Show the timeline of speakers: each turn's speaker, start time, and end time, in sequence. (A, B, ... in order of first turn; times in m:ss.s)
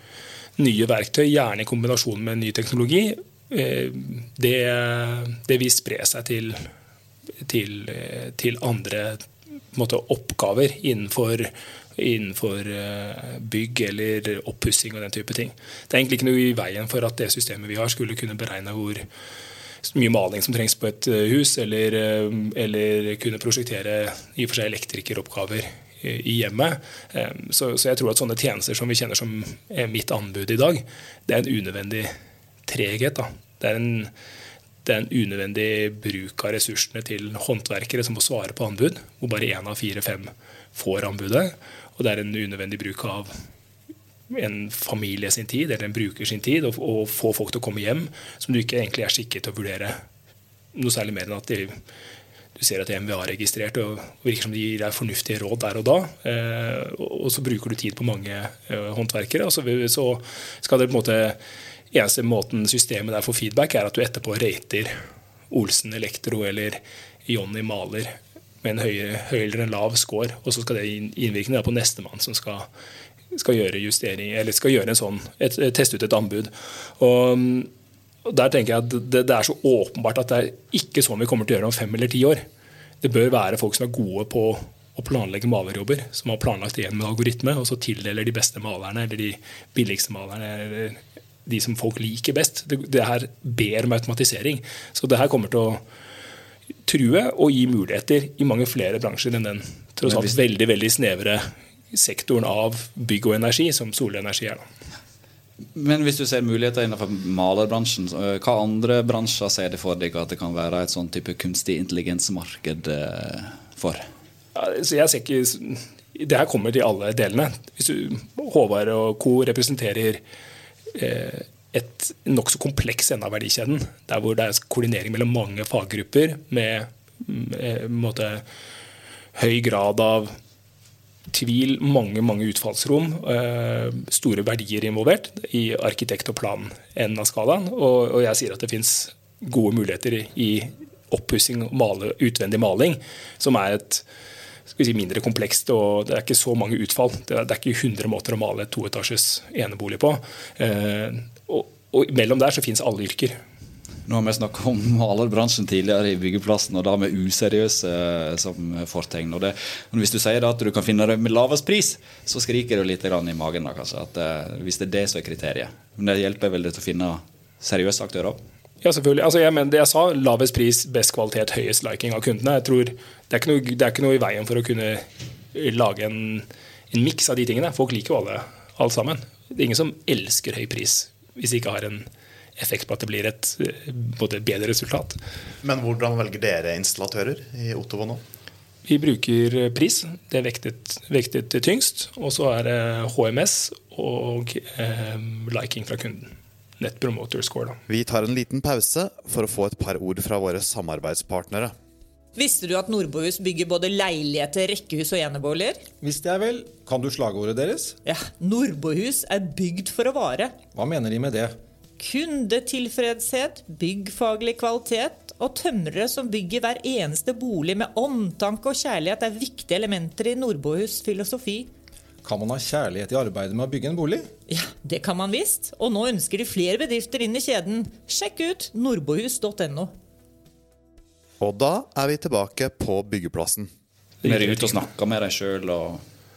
0:00.6-0:06.6 A
0:07.4-0:19.0 A
0:19.8-0:32.1 A
0:32.7-0:34.1 A
0:34.8-0:43.3 A
0:44.3-0:50.0 A
0:50.7-0:51.7 A
0:52.5-1:01.4 A
1:01.9-1:04.9 A
1:05.5-1:12.7 A
1:13.3-1:17.7 A
1:18.2-1:22.4 A
1:23.0-1:35.8 A
1:36.9-1:44.6 A
1:40.0-1:40.4 B
1:45.7-1:54.0 B
1:54.5-2:00.2 A
2:00.9-2:08.4 A
2:09.3-2:10.3 A
2:11.3-2:24.0 A
2:24.7-2:33.4 A
2:34.0-2:48.4 B
2:48.8-3:02.0 A
3:02.6-3:05.2 A
3:05.6-3:08.2 C
3:08.8-3:17.8 A
3:17.9-3:21.7 C
3:22.4-3:25.8 D
3:26.0-3:28.0 E
3:28.0-3:30.5 D
3:30.7-3:31.5 E
3:32.0-3:41.7 D
3:42.2-3:44.3 E
3:44.5-3:49.9 D
3:51.4-3:53.7 C
3:54.2-3:54.8 A
3:54.2-3:56.0 B